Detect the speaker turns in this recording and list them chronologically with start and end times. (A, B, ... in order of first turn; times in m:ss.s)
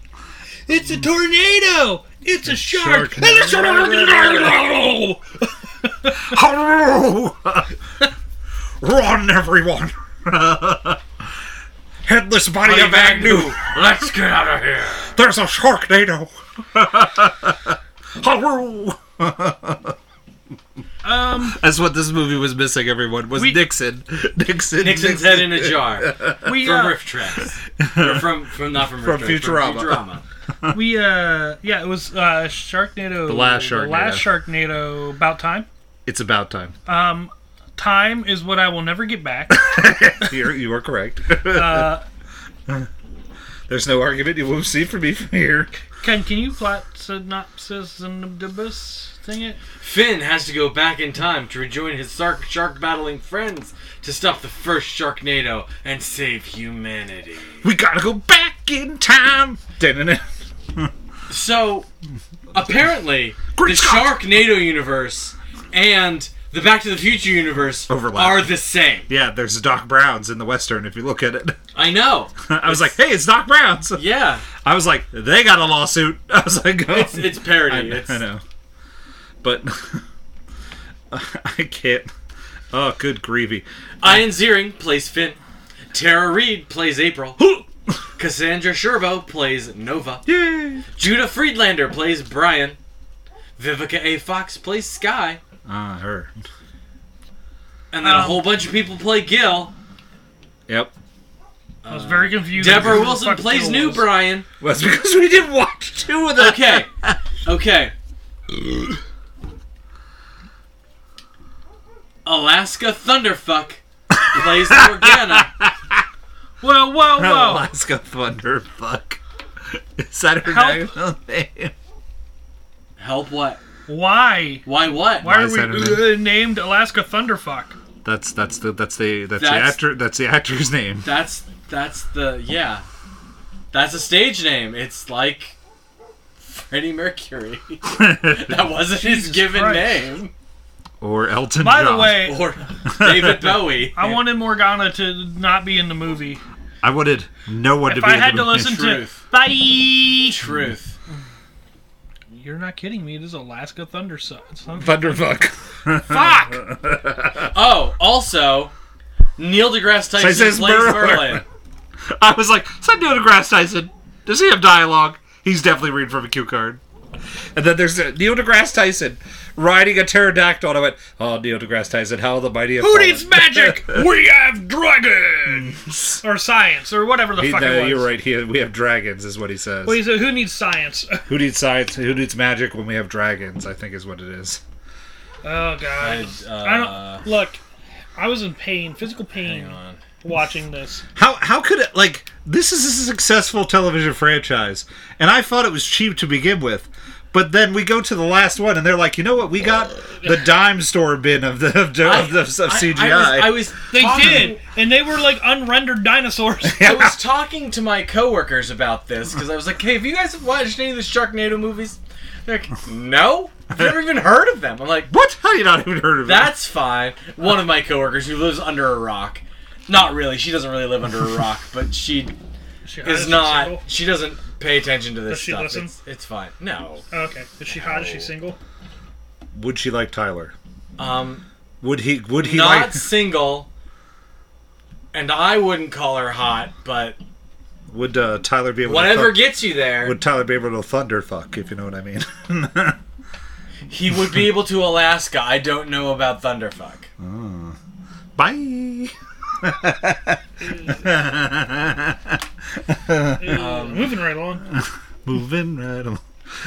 0:00.7-0:06.3 A
0:00.8-0:01.0 B
0:02.4-0:04.6 B
0:06.2-0:07.8 B
0:08.8-0:11.0 B
0:12.0-0:13.7 B
0:12.6-0:15.2 C
0:15.1-0:20.0 B
0:21.0-0:21.6 A
0:21.3-0:26.5 B
0:24.8-0:30.2 C
0:26.4-0:27.0 A
0:27.4-0:30.0 B
0:30.7-0:35.7 A
0:33.3-0:34.3 B
0:36.0-0:36.7 B
0:36.9-0:39.6 A
0:39.5-0:41.9 B
0:41.5-0:42.0 A
0:43.7-0:45.8 B
0:46.0-0:49.6 A
0:49.8-0:57.6 C
0:57.6-1:00.9 B
1:01.3-1:01.9 C
1:02.5-1:09.1 C
1:03.5-1:04.2 B
1:07.9-1:08.5 B
1:09.1-1:11.6 B
1:11.7-1:12.9 C
1:12.4-1:14.0 B
1:14.0-1:14.5 C
1:14.6-1:18.4 B
1:16.9-1:18.2 C
1:19.4-1:20.0 B
1:21.1-1:22.1 B
1:22.7-1:24.3 B
1:24.0-1:25.4 C
1:25.9-1:27.4 C
1:27.4-1:27.6 B
1:28.2-1:30.2 C
1:30.2-1:30.9 B
1:31.0-1:32.8 C
1:33.6-1:35.4 C
1:35.6-1:36.4 B
1:37.9-1:39.7 C
1:38.0-1:38.5 A
1:41.8-1:44.4 C
1:41.9-1:44.1 A
1:42.6-1:43.0 B
1:44.6-1:47.2 B
1:46.4-1:46.9 C
1:47.4-1:47.9 C
1:52.2-1:55.5 C
1:54.1-1:56.0 B
1:56.6-1:57.7 A
1:57.2-2:01.7 B
2:00.4-2:00.9 A
2:03.0-2:03.6 C
2:03.9-2:04.6 A
2:04.6-2:05.3 C
2:05.2-2:07.8 A
2:05.2-2:06.2 B
2:08.0-2:11.1 B
2:09.4-2:09.8 C
2:11.0-2:12.8 C
2:13.7-2:15.6 C
2:16.4-2:20.3 C
2:17.9-2:18.6 B
2:18.9-2:20.0 A
2:21.0-2:22.2 B
2:21.6-2:22.5 A
2:22.2-2:24.2 C
2:22.9-2:23.6 B
2:24.0-2:26.4 A
2:26.8-2:28.8 B
2:27.8-2:30.4 A
2:28.6-2:29.2 C
2:30.2-2:30.9 C
2:32.3-2:36.6 A
2:34.8-2:37.5 B
2:37.5-2:38.7 C
2:39.4-2:41.4 C
2:40.2-2:41.4 B
2:42.2-2:46.8 B
2:47.5-2:54.0 B
2:52.8-2:58.1 A
2:55.5-2:56.2 B
2:57.4-3:00.0 B
2:59.8-3:01.3 A
3:01.3-3:04.6 B
3:05.4-3:07.6 A
3:06.0-3:07.2 C
3:08.2-3:11.0 A
3:09.4-3:10.0 C
3:11.2-3:23.7 B
3:22.0-3:24.6 C
3:23.9-3:26.9 A
3:26.7-3:27.2 B
3:26.8-3:35.1 C
3:35.1-3:36.5 B
3:36.2-3:42.3 C
3:42.8-3:43.8 A
3:43.0-3:47.0 C
3:45.3-3:45.9 A
3:47.1-3:48.6 A
3:47.8-3:48.3 C
3:49.5-3:50.5 B
3:51.0-3:51.4 C
3:51.8-3:53.1 B
3:52.4-3:53.7 C
3:55.1-3:57.2 C
3:57.9-4:03.0 B
3:58.8-4:00.2 C
4:03.9-4:07.1 C
4:07.2-4:07.8 B
4:08.4-4:13.6 B
4:10.7-4:11.0 A
4:13.4-4:14.6 A
4:13.5-4:14.1 C
4:14.6-4:16.2 B